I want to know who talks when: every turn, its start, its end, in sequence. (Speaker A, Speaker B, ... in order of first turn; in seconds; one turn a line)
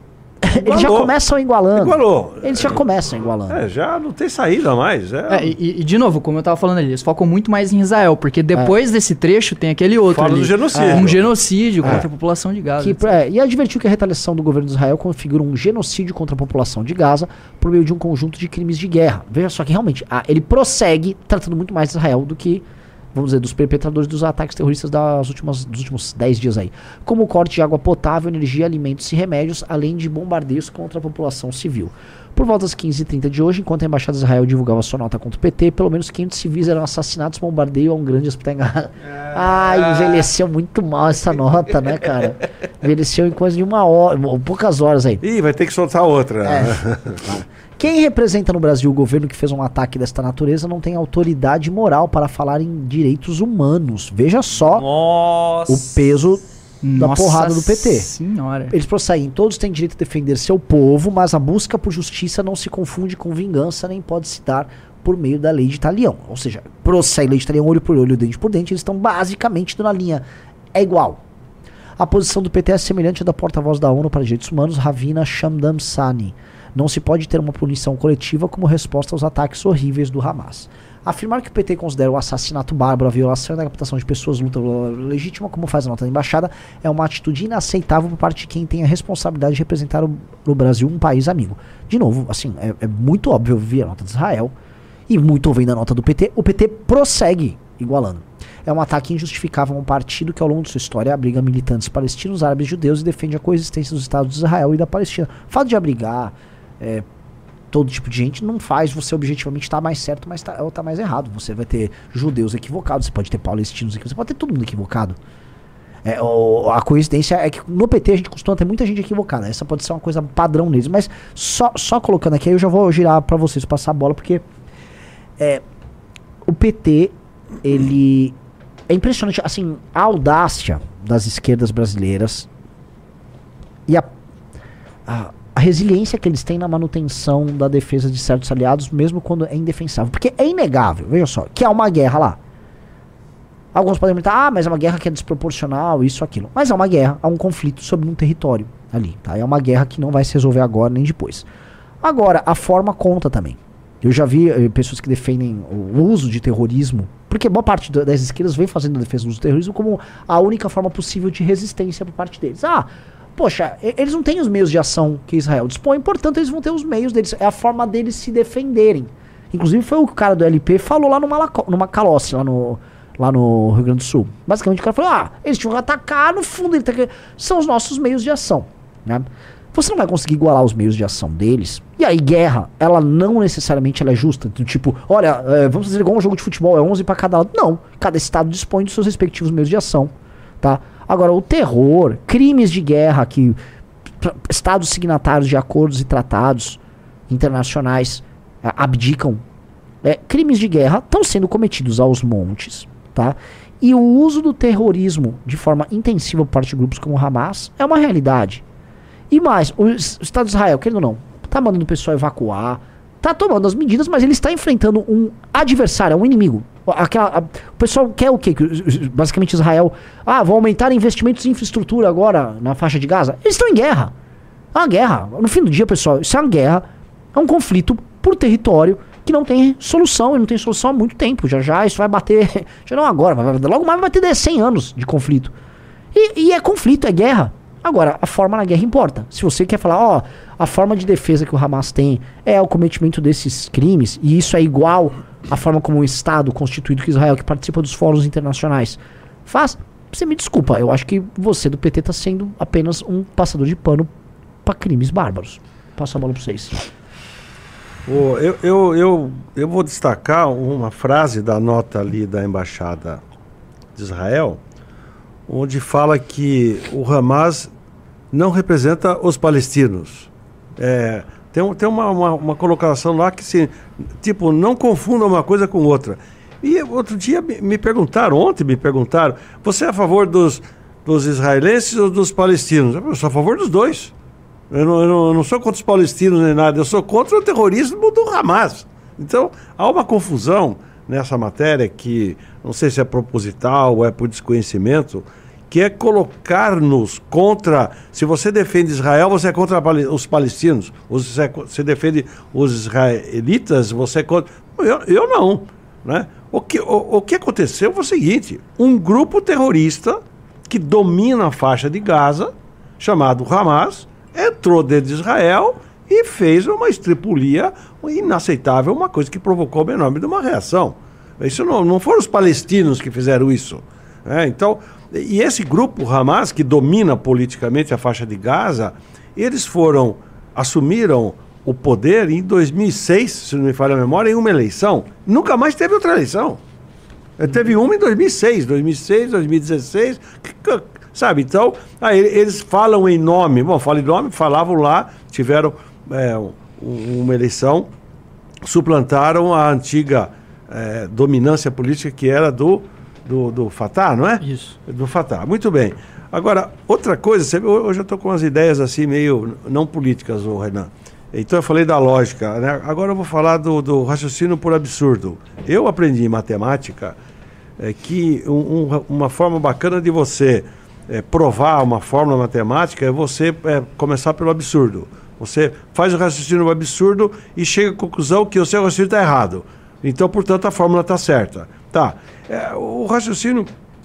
Speaker A: 0.4-3.6
Speaker B: 0.6-1.1
Speaker B: 1.8-2.8
Speaker B: 3.5-5.6
Speaker C: 5.3-13.0
Speaker B: 10.1-12.0
Speaker A: 10.7-11.1
Speaker A: 12.8-45.2
Speaker D: 39.1-40.1
Speaker B: 45.2-47.3
Speaker A: 46.4-54.9
Speaker D: 54.6-56.0
Speaker A: 55.7-56.4
Speaker C: 56.8-58.8
Speaker A: 57.0-58.1
Speaker A: 58.7-71.2
Speaker A: 72.0-94.5
Speaker A: 95.1-107.0
Speaker A: 107.7-115.2
Speaker A: 116.0-124.5
Speaker A: 125.4-125.6
Speaker A: 126.5-128.4
Speaker A: 128.9-132.5
Speaker A: 135.1-142.4
Speaker A: 143.7-151.5
Speaker A: 152.0-193.6
Speaker A: 194.2-199.4
Speaker A: 200.0-208.6
Speaker A: 209.3-224.1
Speaker A: 224.7-235.5
Speaker A: 236.1-254.1
Speaker A: 254.6-256.9
Speaker B: 258.1-263.2
Speaker B: 263.9-264.6
Speaker B: 265.5-267.7
Speaker B: 268.3-284.1
Speaker B: 284.7-336.6
Speaker B: 337.4-347.9
Speaker B: 348.6-367.2
Speaker C: 354.4-354.8
Speaker B: 367.8-383.7